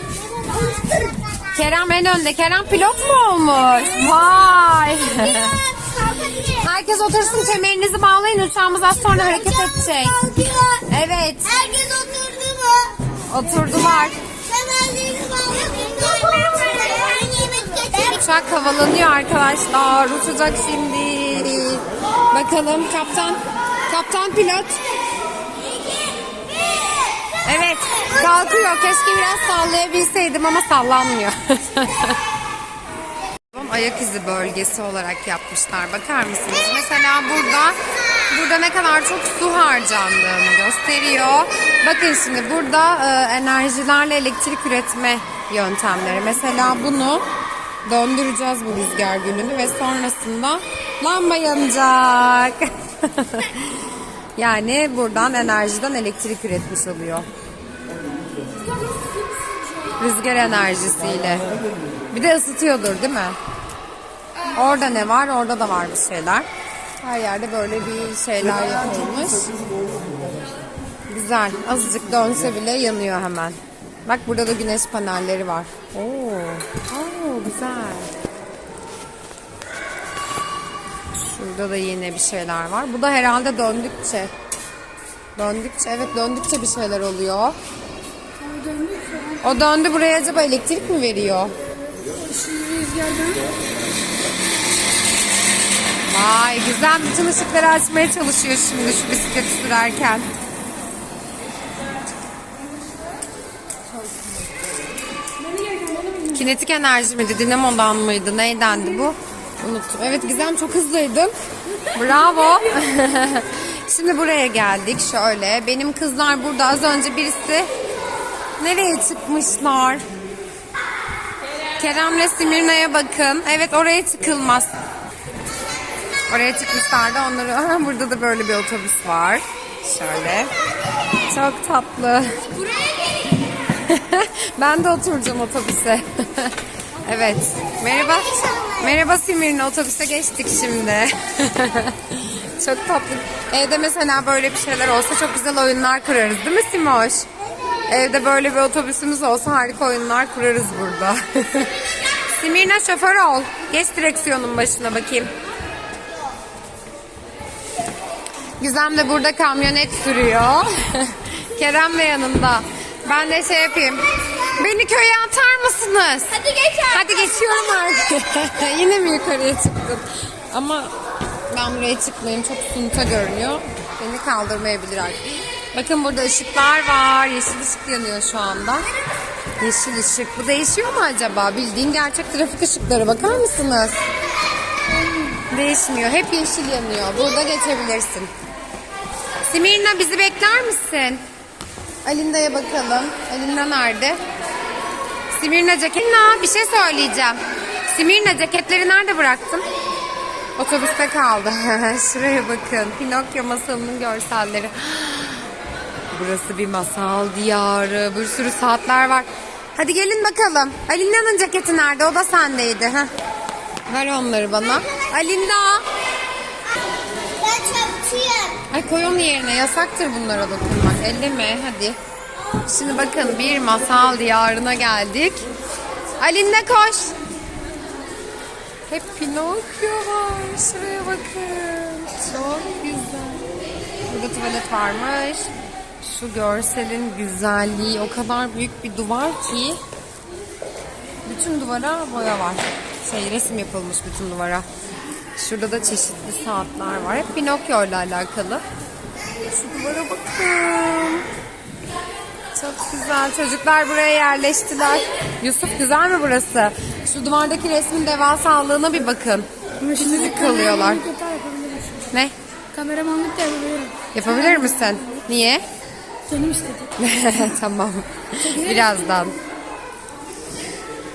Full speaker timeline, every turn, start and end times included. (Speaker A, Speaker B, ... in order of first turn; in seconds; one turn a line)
Speaker A: 0.2-1.5
Speaker B: 1.5-5.7
Speaker A: 5.8-6.5
Speaker B: 6.3-11.7
Speaker A: 10.2-10.8
Speaker A: 11.5-13.2
Speaker B: 13.3-14.2
Speaker A: 14.3-18.1
Speaker B: 17.9-24.8
Speaker A: 25.8-27.0
Speaker B: 27.4-32.2
Speaker B: 33.5-37.8
Speaker B: 38.3-47.2
Speaker B: 47.9-57.3
Speaker B: 60.0-61.5
Speaker B: 62.1-63.4
Speaker B: 64.5-66.5
Speaker B: 67.0-69.5
Speaker B: 71.1-78.1
Speaker B: 81.1-84.3
Speaker B: 85.3-87.5
Speaker C: 88.4-89.4
Speaker B: 89.4-91.5
Speaker C: 92.1-93.5
Speaker B: 96.1-100.3
Speaker C: 105.5-106.3
Speaker B: 106.2-111.3
Speaker B: 111.9-117.7
Speaker B: 118.6-120.0
Speaker B: 121.8-124.7
Speaker B: 126.3-130.5
Speaker B: 131.3-132.5
Speaker B: 133.7-147.2
Speaker A: 138.3-138.7
Speaker B: 147.9-155.3
Speaker B: 158.6-170.9
Speaker B: 171.5-178.9
Speaker B: 179.6-184.0
Speaker B: 185.3-188.3
Speaker B: 189.4-191.2
Speaker B: 192.0-194.2
Speaker B: 195.3-199.7
Speaker B: 200.6-205.5
Speaker B: 206.1-213.1
Speaker B: 213.9-215.8
Speaker A: 217.2-218.6
Speaker B: 218.7-222.0
Speaker B: 222.6-225.5
Speaker B: 226.2-227.2
Speaker B: 228.9-233.5
Speaker B: 234.1-235.5
Speaker B: 236.0-239.8
Speaker B: 241.2-244.7
Speaker B: 245.4-248.6
Speaker B: 249.5-251.3
Speaker B: 252.5-261.1
Speaker C: 259.8-262.1
Speaker B: 262.1-262.3
Speaker C: 262.7-264.1
Speaker B: 264.1-265.6
Speaker C: 266.3-266.9
Speaker B: 267.0-269.4